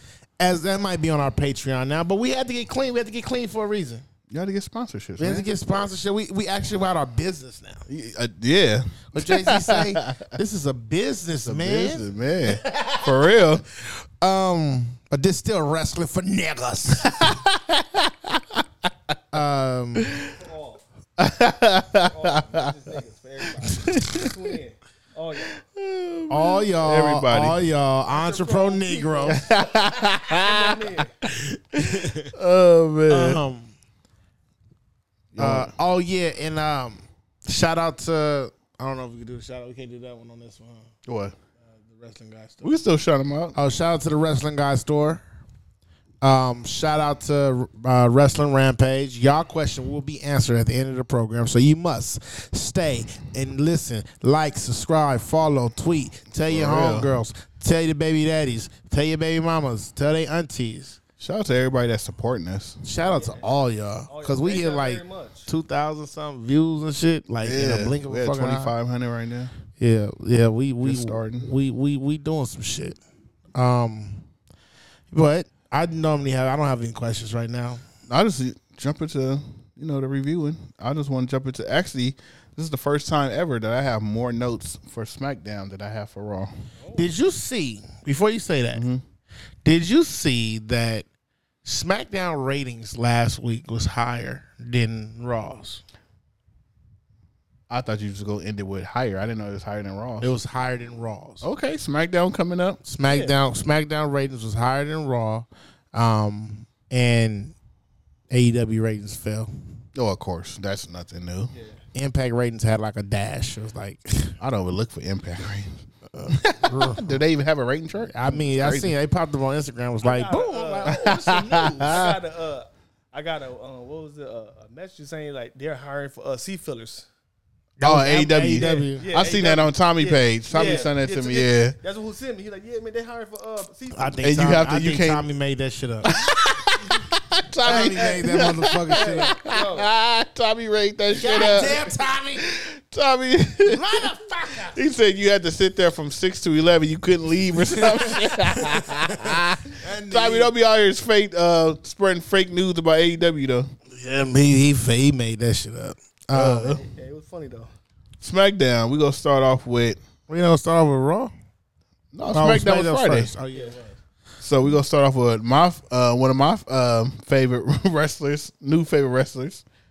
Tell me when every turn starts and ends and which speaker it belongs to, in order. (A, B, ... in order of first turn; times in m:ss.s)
0:00.4-0:04.0 A
0:04.3-0:05.5 B
0:05.2-0:07.9 A
0:07.9-0:10.3 B
0:09.1-0:13.1 A
0:11.4-0:13.6 B
0:13.9-0:17.3 A
0:17.0-0:18.6 B
0:19.3-0:20.1 A
0:20.3-0:20.8 C
0:21.2-0:22.6 B
0:22.1-0:25.5 C
0:23.8-0:24.2 B
0:25.6-0:27.6 B
0:26.3-0:29.4 A
0:28.1-0:29.5 C
0:29.3-0:30.8 B
0:30.3-0:31.1 C
0:31.7-0:32.3 A
0:32.3-0:33.4 B
0:33.1-0:33.7 A
0:35.3-0:35.7 B
0:35.4-0:40.9 A
0:41.1-0:41.4 B
0:41.6-0:42.7 A
0:42.6-0:43.6 B
0:43.6-0:45.2 A
0:46.2-1:01.0 A
0:56.5-0:57.2 B
1:01.2-1:02.8 B
1:02.8-1:08.7 A
1:03.0-1:03.4 C
1:04.1-1:05.5 C
1:07.4-1:09.5 B
1:09.8-1:13.0 A
1:10.8-1:11.5 B
1:13.6-1:14.2 A
1:15.1-1:17.8 A
1:18.1-1:26.5 B
1:26.8-1:27.1 C
1:27.0-1:28.8 A
1:28.7-1:29.0 B
1:29.6-1:31.1 A
1:31.6-1:35.8 A
1:37.7-1:40.3 B
1:40.2-1:41.4 A
1:41.4-1:42.8 B
1:42.8-1:47.6 A
1:43.1-1:43.3 C
1:48.3-1:49.5 A
1:50.0-1:51.5 B
1:51.5-1:51.8 C
1:52.0-1:54.4 A
1:54.4-1:55.7 B
1:56.1-1:57.2 A
1:56.3-1:58.9 B
1:58.1-2:02.0 A
2:00.0-2:07.1 C
2:00.9-2:02.2 B
2:07.8-2:09.1 A
2:07.8-2:11.8 B
2:08.5-2:14.2 C
2:10.5-2:10.9 A
2:13.9-2:16.1 A
2:14.2-2:15.3 B
2:16.0-2:24.1 B
2:17.6-2:18.3 C
2:17.6-2:19.3 A
2:18.9-2:19.9 C
2:21.1-2:22.4 A
2:23.6-2:24.8 A
2:24.7-2:33.7 B
2:29.8-2:30.5 A
2:33.9-2:36.8 A
2:36.3-2:36.8 B
2:36.7-2:37.7 C
2:38.2-2:40.0 B
2:40.3-2:41.3 A
2:42.1-2:43.3 B
2:42.2-2:44.0 A
2:43.5-2:43.8 C
2:44.4-2:49.6 B